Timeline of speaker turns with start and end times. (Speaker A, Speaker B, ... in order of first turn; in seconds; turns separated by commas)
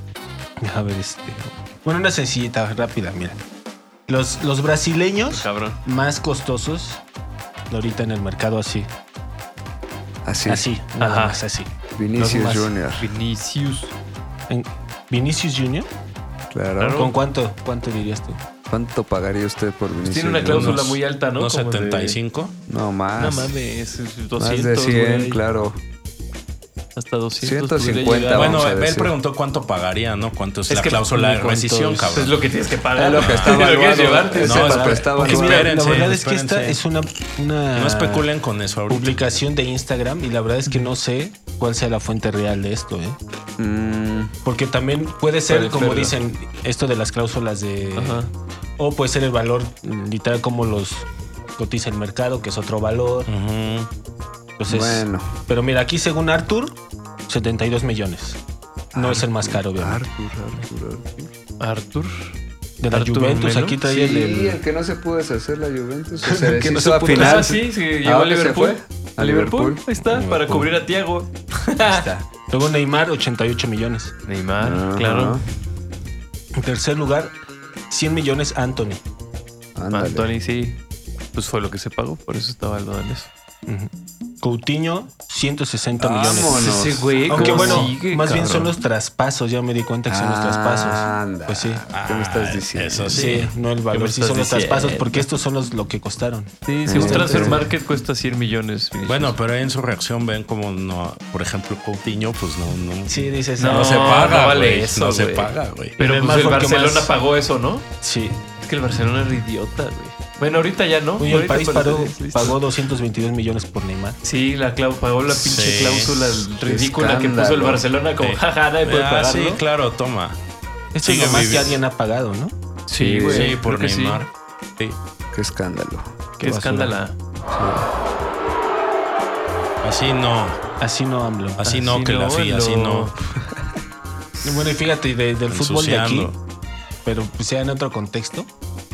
Speaker A: 0.6-3.4, Speaker A: 4.1-7.0, Speaker B: 5.3-5.8, Speaker A: 7.7-8.9, Speaker C: 10.2-10.7, Speaker A: 10.5-11.7, Speaker B: 11.0-11.4, Speaker C: 12.0-13.1, Speaker B: 12.2-13.9, Speaker A: 14.5-15.9, Speaker C: 16.5-17.0, Speaker B: 16.8-17.1, Speaker A: 16.9-18.4, Speaker C: 18.7-20.8, Speaker B: 20.1-22.2, Speaker D: 20.4-22.5, Speaker C: 22.7-23.5, Speaker B: 23.2-25.4, Speaker C: 24.4-25.8, Speaker B: 27.0-28.6, Speaker C: 27.4-29.1, Speaker D: 28.3-32.4, Speaker B: 30.7-35.2, Speaker C: 33.0-35.7, Speaker D: 33.2-33.6, Speaker D: 34.3-36.8, Speaker A: 35.2-38.3, Speaker D: 37.7-39.2, Speaker A: 38.9-43.2, Speaker B: 40.7-40.9, Speaker C: 43.6-44.3, Speaker A: 44.5-48.3, Speaker B: 45.5-46.2, Speaker B: 48.0-48.3, Speaker A: 48.8-53.3, Speaker D: 53.3-53.9, Speaker A: 54.6-58.4, Speaker C: 54.7-55.3, Speaker A: 58.9-60.0, Speaker C: 58.9-61.3, Speaker B: 61.6-62.4, Speaker A: 62.8-64.6, Speaker B: 62.9-63.8, Speaker C: 63.8-69.8, Speaker A: 66.3-67.6, Speaker B: 67.1-72.1, Speaker A: 70.1-70.7, Speaker A: 71.8-74.1, Speaker B: 74.3-75.4, Speaker C: 74.6-75.4, Speaker A: 76.5-77.3, Speaker A: 77.9-79.0, Speaker C: 79.8-80.3, Speaker B: 79.9-80.8, Speaker B: 81.3-83.3, Speaker A: 84.4-91.8, Speaker C: 86.0-87.9, Speaker B: 86.5-88.7, Speaker C: 90.1-93.2, Speaker D: 91.9-93.5, Speaker A: 93.1-97.6, Speaker B: 93.9-95.3, Speaker B: 96.7-99.4, Speaker C: 96.9-97.6, Speaker D: 99.1-106.0, Speaker A: 103.1-104.3, Speaker B: 103.6-107.9, Speaker A: 106.0-107.1, Speaker A: 108.0-108.4, Speaker B: 108.6-112.6, Speaker A: 111.2-114.2, Speaker B: 114.2-119.6, Speaker D: 115.3-116.4, Speaker C: 116.6-117.8, Speaker D: 118.2-120.4, Speaker A: 120.9-122.5, Speaker D: 121.0-121.8, Speaker B: 122.9-124.2, Speaker C: 123.0-123.5, Speaker D: 123.2-125.0, Speaker C: 125.3-126.1, Speaker B: 126.4-127.2, Speaker A: 126.4-127.0, Speaker C: 127.5-127.8, Speaker D: 129.8-130.6, Speaker A: 130.8-131.6, Speaker D: 131.6-133.1, Speaker B: 131.6-133.1, Speaker A: 134.4-136.3, Speaker D: 135.5-136.3, Speaker A: 137.1-138.5